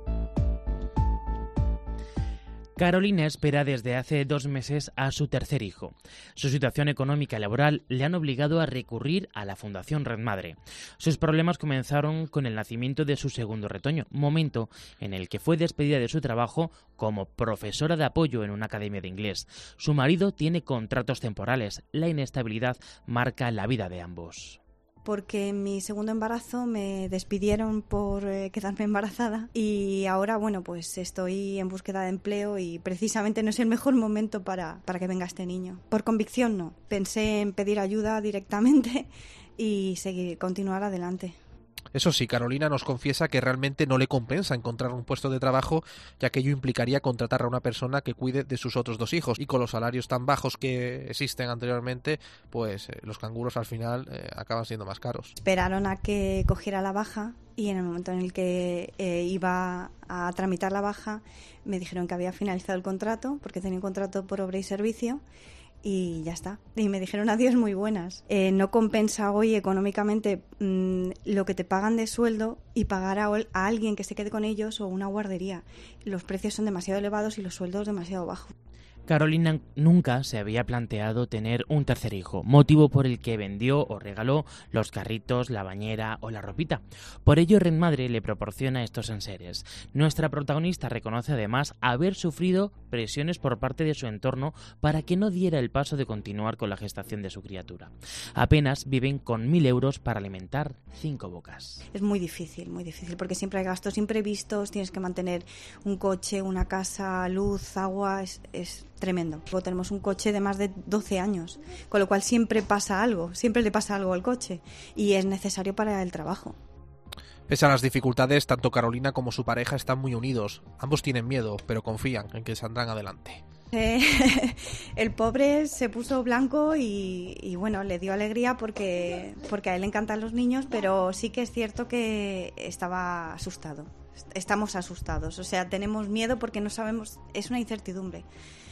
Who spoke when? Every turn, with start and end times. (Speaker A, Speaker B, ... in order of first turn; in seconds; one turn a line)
Speaker A: 2.8-24.6
Speaker B: 25.1-41.4
Speaker C: 41.9-55.3
Speaker B: 55.4-65.2
Speaker B: 65.8-78.5
Speaker A: 79.1-101.8
Speaker B: 101.9-116.6
Speaker C: 117.5-123.4
Speaker B: 123.7-138.3